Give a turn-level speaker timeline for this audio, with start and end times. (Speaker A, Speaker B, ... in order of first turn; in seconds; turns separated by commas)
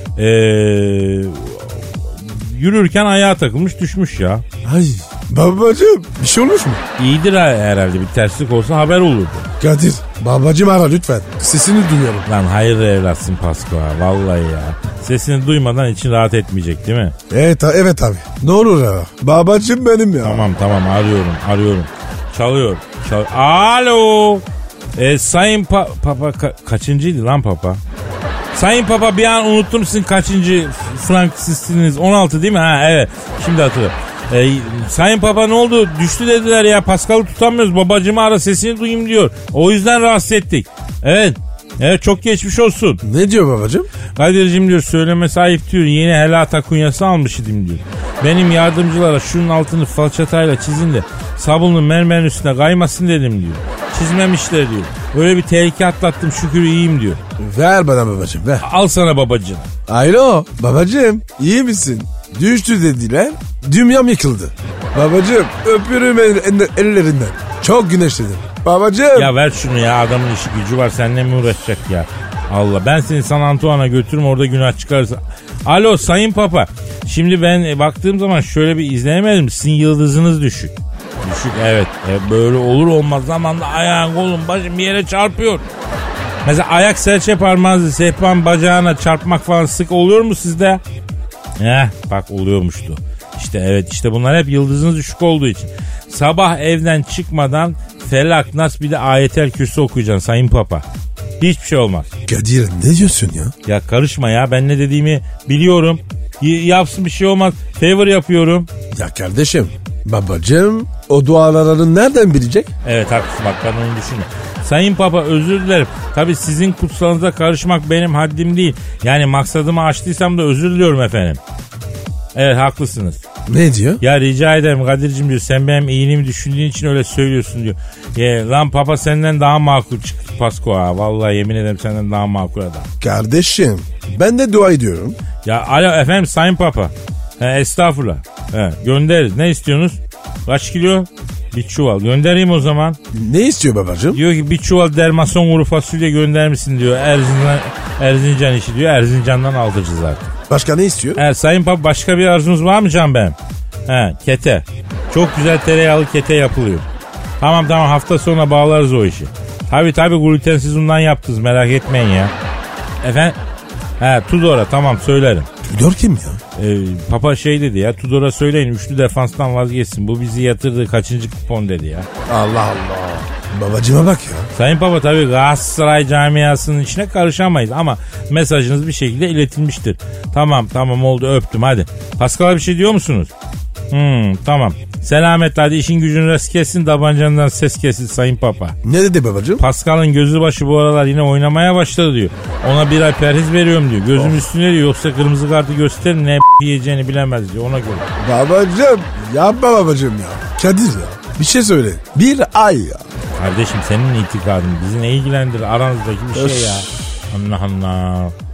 Speaker A: 0.1-4.4, Speaker B: 4.6-6.8, Speaker A: 7.0-9.5, Speaker B: 9.6-12.3, Speaker A: 12.3-17.1, Speaker B: 17.3-20.5, Speaker A: 20.2-24.4, Speaker A: 24.9-27.8, Speaker A: 28.5-43.0, Speaker B: 43.0-43.9, Speaker A: 44.1-57.2, Speaker B: 57.4-58.6, Speaker A: 58.6-59.7, Speaker B: 59.9-69.3, Speaker A: 69.1-85.6, Speaker A: 86.4-90.8, Speaker A: 91.6-100.8, Speaker A: 101.4-102.1, Speaker B: 102.3-103.5, Speaker A: 103.7-108.7, Speaker B: 108.9-112.7, Speaker A: 112.8-121.4, Speaker A: 122.3-123.2, Speaker B: 123.5-124.0, Speaker A: 124.0-132.9, Speaker B: 133.0-135.2, Speaker A: 135.4-143.0, Speaker B: 143.1-144.2, Speaker A: 144.1-150.3, Speaker B: 150.5-151.2, Speaker A: 151.2-153.3, Speaker A: 153.9-156.8, Speaker A: 157.4-162.3, Speaker A: 163.0-163.4, Speaker A: 164.0-165.5, Speaker B: 165.7-166.4, Speaker A: 166.6-172.1, Speaker B: 172.3-174.5, Speaker A: 174.5-183.3, Speaker A: 183.9-188.8, Speaker B: 188.8-189.6, Speaker A: 189.6-198.1, Speaker B: 198.2-203.1, Speaker A: 203.4-208.3, Speaker B: 206.3-206.8